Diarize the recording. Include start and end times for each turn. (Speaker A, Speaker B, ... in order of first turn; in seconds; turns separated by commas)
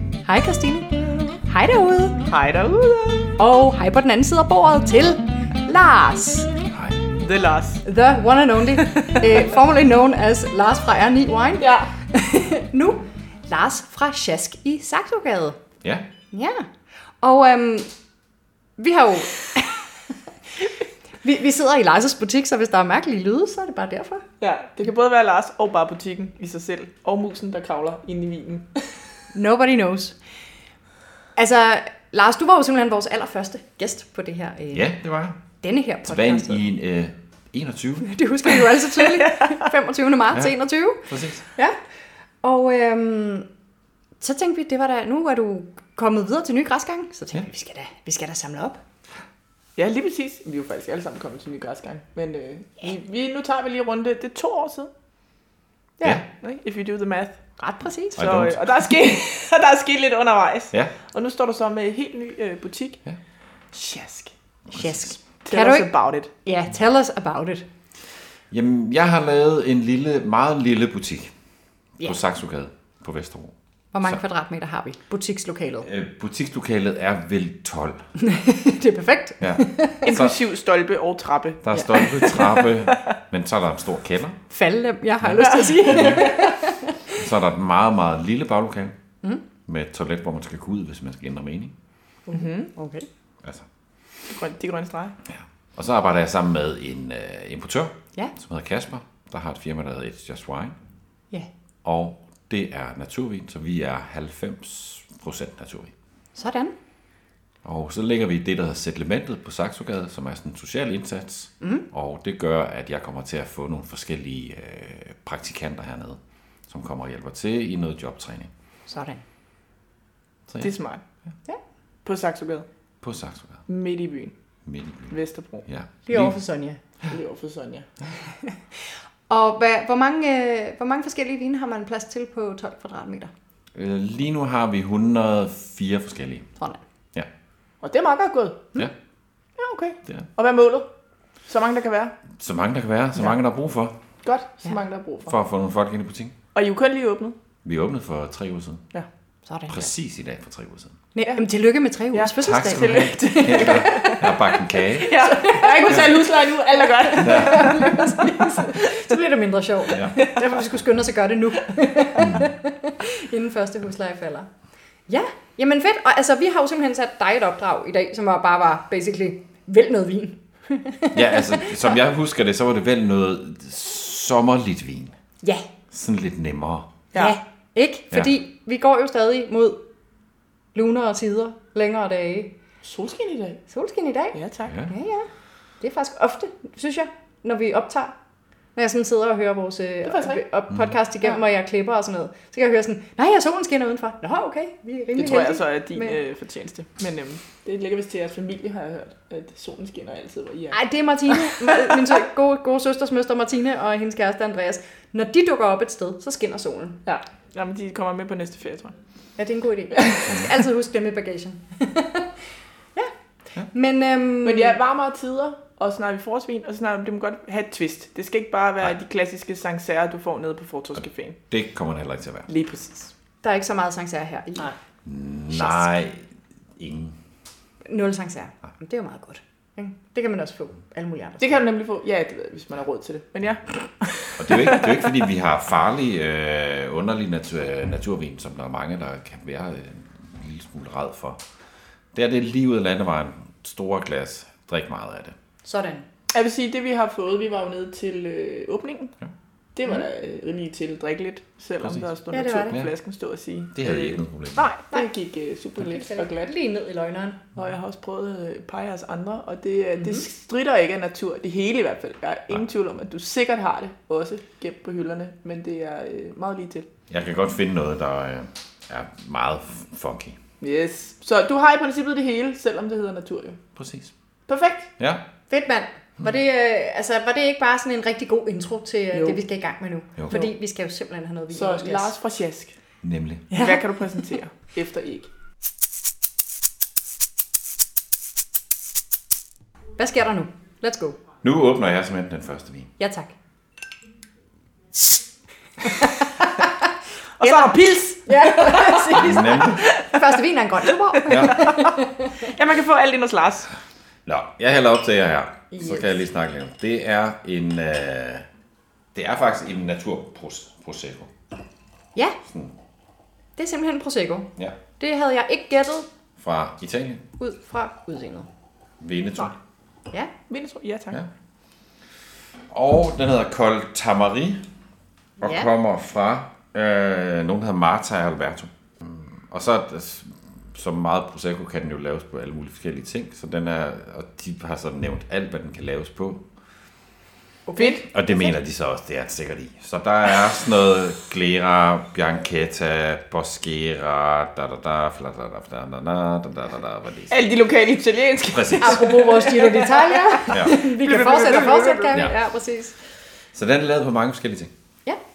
Speaker A: 0.2-2.2, Speaker B: 2.2-3.4, Speaker A: 3.4-6.5, Speaker C: 6.7-7.0, Speaker B: 7.2-7.8, Speaker A: 7.8-15.6, Speaker B: 8.8-9.5, Speaker B: 11.6-11.9, Speaker A: 16.3-16.7, Speaker A: 17.2-17.9, Speaker A: 18.8-19.8, Speaker A: 21.2-24.2, Speaker B: 24.4-28.8, Speaker A: 29.3-30.2, Speaker A: 31.4-34.9, Speaker C: 34.7-35.4, Speaker A: 35.6-36.6, Speaker C: 36.0-38.1, Speaker A: 38.0-41.8, Speaker B: 39.0-39.7, Speaker C: 41.1-41.4, Speaker A: 42.4-43.5, Speaker A: 44.2-48.8, Speaker B: 49.8-54.9, Speaker B: 56.4-57.4, Speaker A: 57.6-58.2, Speaker C: 58.2-58.6, Speaker B: 58.2-63.0, Speaker B: 63.7-64.3, Speaker A: 64.7-65.9, Speaker B: 65.4-66.3, Speaker A: 66.4-67.7, Speaker C: 68.5-71.3, Speaker C: 72.0-73.5, Speaker A: 73.9-75.9, Speaker C: 75.8-78.0, Speaker A: 78.2-80.1, Speaker C: 79.4-80.3, Speaker B: 80.0-83.2, Speaker C: 81.6-84.4, Speaker A: 81.7-82.3, Speaker A: 84.5-87.1, Speaker C: 85.2-86.3, Speaker B: 85.4-86.5, Speaker C: 87.1-88.9, Speaker C: 89.7-91.7, Speaker A: 92.3-93.1, Speaker B: 92.3-92.7, Speaker B: 94.3-95.1, Speaker C: 95.3-100.8, Speaker C: 101.8-105.9, Speaker A: 106.3-106.7, Speaker C: 107.6-118.5, Speaker A: 111.6-111.8, Speaker A: 118.9-119.2, Speaker B: 120.6-121.0, Speaker B: 122.0-122.7, Speaker C: 123.0-123.6, Speaker B: 123.7-124.3, Speaker C: 124.6-126.3, Speaker B: 125.1-125.7, Speaker A: 126.1-126.8, Speaker B: 127.1-127.9, Speaker A: 129.3-133.3, Speaker C: 133.7-136.5, Speaker B: 137.8-138.6, Speaker B: 139.6-140.9, Speaker B: 141.5-142.1, Speaker C: 142.4-144.0, Speaker B: 144.2-145.3, Speaker C: 145.3-146.3, Speaker B: 146.5-147.3, Speaker C: 147.6-148.8, Speaker A: 149.4-149.9, Speaker C: 149.7-151.0, Speaker A: 151.1-156.2, Speaker B: 152.1-159.1, Speaker C: 152.4-155.2, Speaker A: 157.0-164.5, Speaker C: 157.2-157.8, Speaker B: 160.0-160.5, Speaker A: 165.1-171.9, Speaker C: 171.1-175.1, Speaker C: 175.9-176.9, Speaker A: 177.1-179.8, Speaker A: 180.7-182.5, Speaker B: 182.8-183.6, Speaker A: 183.7-185.3, Speaker B: 184.3-184.8, Speaker A: 185.8-188.1, Speaker A: 188.8-196.2, Speaker B: 190.0-190.4, Speaker B: 195.2-200.8, Speaker A: 200.7-207.0, Speaker B: 201.3-202.1, Speaker B: 207.1-208.9, Speaker A: 209.4-212.3, Speaker A: 213.7-214.8, Speaker B: 214.4-221.4, Speaker C: 221.5-222.5, Speaker B: 222.5-223.1, Speaker A: 223.4-224.7, Speaker C: 225.0-226.2, Speaker A: 225.5-225.9, Speaker C: 226.8-227.1, Speaker A: 227.8-231.6, Speaker B: 231.4-235.1, Speaker C: 234.4-241.4, Speaker C: 242.1-245.3, Speaker A: 245.6-246.1, Speaker B: 246.3-249.1, Speaker B: 249.8-256.5, Speaker A: 252.3-252.8, Speaker C: 253.7-254.6, Speaker A: 255.8-257.4, Speaker B: 257.6-266.9, Speaker A: 260.0-260.2, Speaker C: 267.1-270.4, Speaker B: 270.6-273.6, Speaker C: 273.8-274.1, Speaker B: 274.5-274.9, Speaker C: 275.0-275.2, Speaker A: 275.5-282.1, Speaker B: 279.1-279.4, Speaker B: 281.5-282.8, Speaker C: 283.0-283.5, Speaker B: 283.5-285.3, Speaker A: 283.5-283.8, Speaker A: 290.0-291.2, Speaker C: 291.4-292.9, Speaker A: 293.0-293.3, Speaker A: 296.0-296.7, Speaker B: 297.4-299.2, Speaker A: 297.4-302.5, Speaker C: 299.1-299.8, Speaker B: 299.8-300.4, Speaker B: 301.1-303.7, Speaker C: 301.3-301.6, Speaker C: 304.2-308.4, Speaker A: 305.7-306.2, Speaker C: 309.1-311.3, Speaker C: 312.4-312.7, Speaker A: 313.6-316.1, Speaker C: 316.4-317.2, Speaker A: 317.4-318.5, Speaker C: 319.0-319.5, Speaker B: 320.5-321.2, Speaker C: 322.7-324.6, Speaker A: 325.4-325.7, Speaker C: 325.4-336.4, Speaker B: 337.7-338.0, Speaker A: 337.8-338.6, Speaker C: 338.1-347.4, Speaker B: 347.3-352.2, Speaker C: 348.5-349.1, Speaker A: 348.8-352.9, Speaker C: 350.5-350.8, Speaker C: 353.5-354.7